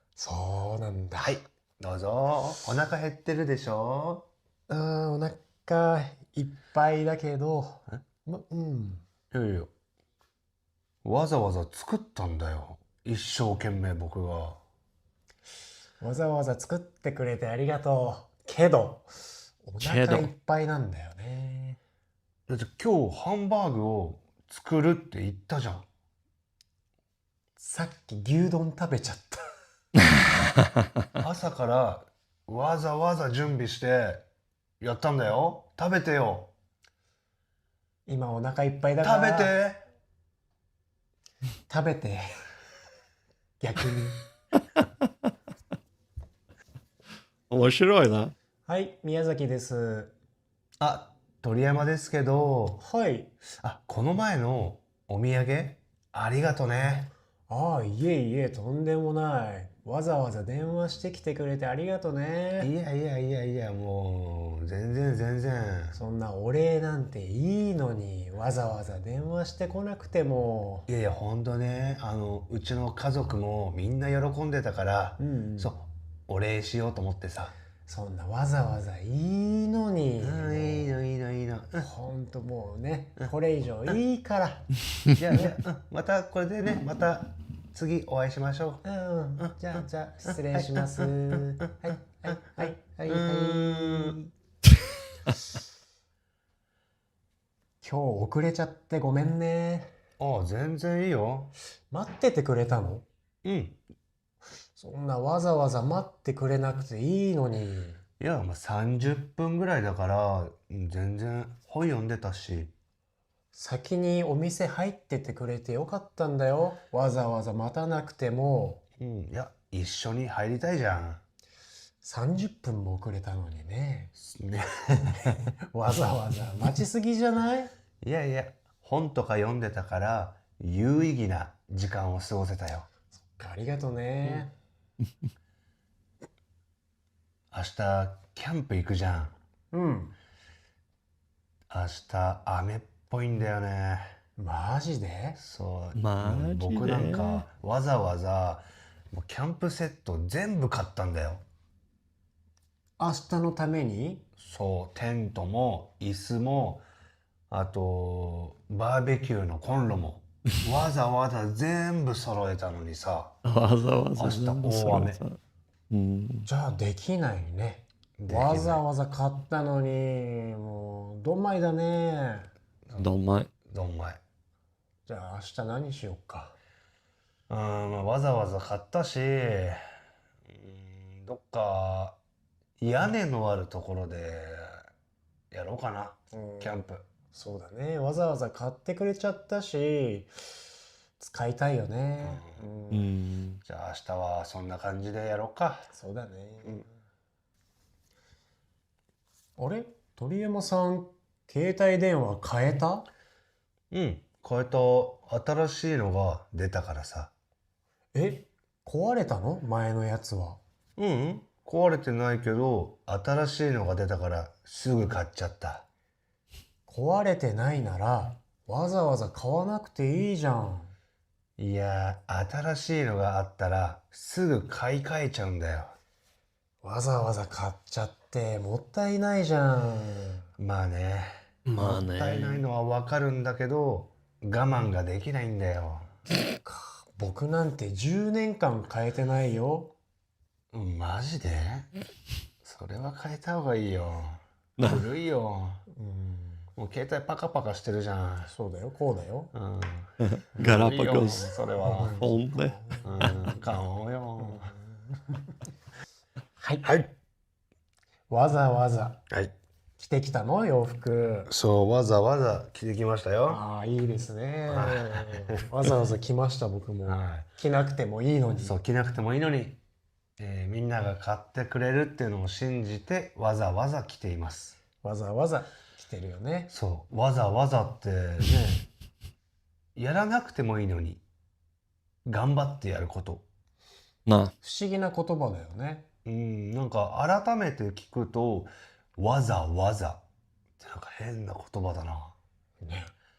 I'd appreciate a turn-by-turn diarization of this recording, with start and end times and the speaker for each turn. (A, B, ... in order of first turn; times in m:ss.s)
0:00.2-0:01.4 A
0:01.2-0:04.3 B
0:04.7-0:09.0 A
0:09.3-0:09.7 B
0:11.0-0:14.6 B
0:16.0-0:19.1 A
0:19.6-0:21.8 A
0:19.8-0:20.3 C
0:22.5-0:25.9 B
0:27.6-0:29.4 A
0:31.2-0:34.2 B
0:34.8-0:36.5 B
0:38.1-0:39.6 A
0:39.0-0:39.8 B
0:41.7-0:42.2 A
0:43.6-0:44.2 A
0:47.5-0:48.3 C
0:48.6-0:50.1 A
0:50.8-0:52.8 B
0:52.8-0:53.3 A
0:53.5-0:57.1 B
0:57.5-1:02.7 A
1:02.6-1:06.0 B
1:05.9-1:10.9 A
1:10.9-1:17.5 B
1:15.2-1:15.8 A
1:17.9-1:20.9 A
1:20.2-1:21.9 B
1:21.8-1:24.7 A
1:25.1-1:28.8 B
1:28.8-1:34.2 A
1:29.4-1:31.4 B
1:32.6-1:34.2 B
1:37.8-1:39.9 A
1:40.2-1:41.5 B
1:41.9-1:43.0 A
1:43.4-1:43.8 B
1:44.8-1:48.0 A
1:48.2-1:52.7 B
1:53.5-1:58.8 A
1:59.0-2:01.2 B
2:02.0-2:04.1 A
2:04.2-2:05.4 B
2:05.1-2:07.7 A
2:08.0-2:12.9 B
2:13.3-2:14.5 A
2:17.5-2:19.3 B
2:19.7-2:20.2 A
2:21.7-2:24.1 B
2:24.4-2:25.4 A
2:25.4-2:31.4 B
2:25.9-2:27.4 C
2:33.0-2:34.2 A
2:34.4-2:36.8 B
2:37.5-2:43.4 B
2:43.4-2:45.4 C
2:44.2-2:45.2 B
2:45.9-2:46.5 C
2:46.4-2:52.5 A
2:48.2-2:48.8 B
2:53.0-2:53.5 C
2:53.7-2:54.2 B
2:55.0-2:56.6 A
2:57.5-2:59.8 B
3:00.5-3:02.2 B
3:02.8-3:04.8 B
3:05.5-3:07.0 B
3:06.3-3:06.8 A
3:07.3-3:10.3 A
3:11.2-3:13.1 A
3:12.2-3:12.6 B
3:12.9-3:13.6 C
3:13.6-3:15.9 B
3:15.9-3:16.9 A
3:19.6-3:23.1 A
3:23.9-3:27.3 B
3:28.1-3:30.6 A
3:31.0-3:35.8 B
3:36.9-3:40.9 A
3:41.6-3:46.0 B
3:46.8-3:50.5 A
3:50.6-3:56.1 B
3:51.6-3:52.6 C
3:56.6-3:59.9 A
4:00.7-4:01.9 B
4:02.6-4:05.8 B
4:04.8-4:05.0 C
4:05.9-4:06.6 A
4:06.8-4:08.5 B
4:08.5-4:09.5 A
4:09.5-4:12.2 B
4:10.2-4:11.5 C
4:11.8-4:13.6 A
4:12.2-4:13.3 C
4:13.0-4:14.7 B
4:14.4-4:15.5 A
4:16.6-4:16.9 A
4:16.8-4:17.1 B
4:18.3-4:19.2 A
4:20.0-4:21.5 A
4:21.5-4:23.6 B
4:23.5-4:28.8 A
4:24.7-4:25.5 B
4:27.0-4:27.5 B
4:28.6-4:29.8 B
4:30.4-4:34.8 B
4:35.0-4:36.7 A
4:36.7-4:38.9 B
4:40.0-4:41.2 B
4:42.2-4:43.4 B
4:44.2-4:44.5 C
4:44.6-4:46.0 A
4:46.2-4:50.2 B
4:50.8-4:52.4 B
4:52.8-4:53.1 A